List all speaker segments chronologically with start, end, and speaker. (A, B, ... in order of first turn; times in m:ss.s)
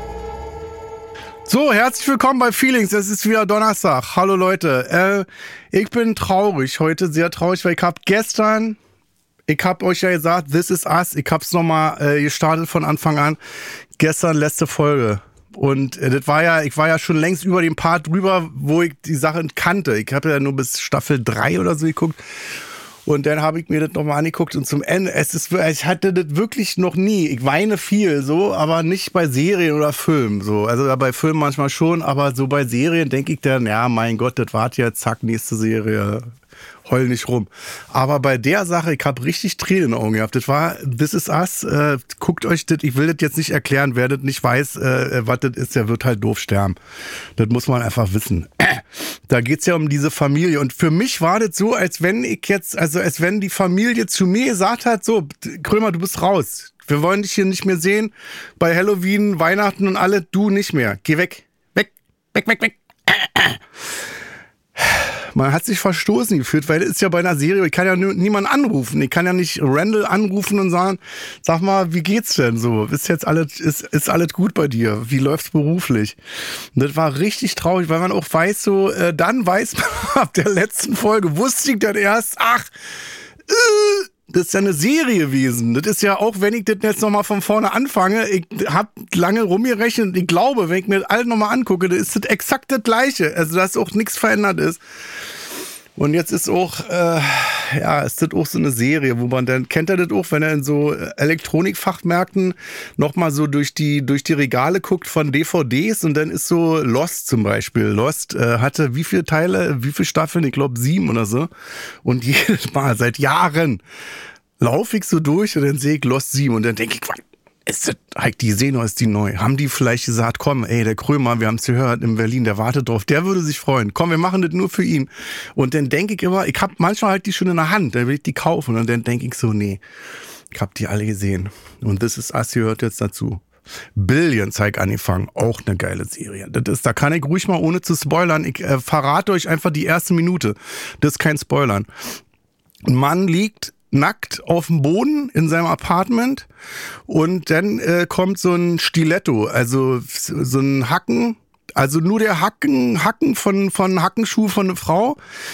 0:01.4-0:08.8 A
0:09.5-0:13.4 A
0:14.0-0:22.2 A
0:23.0-0:36.3 A
0:36.8-0:46.8 A
0:47.4-1:03.6 A
1:04.8-1:22.7 A
1:23.5-1:34.8 A
1:36.0-1:51.5 A
1:52.0-1:53.8 A
1:54.6-2:09.8 A
2:10.5-2:13.4 A
2:13.9-2:21.9 A
2:22.8-2:26.5 A
2:27.1-2:35.2 A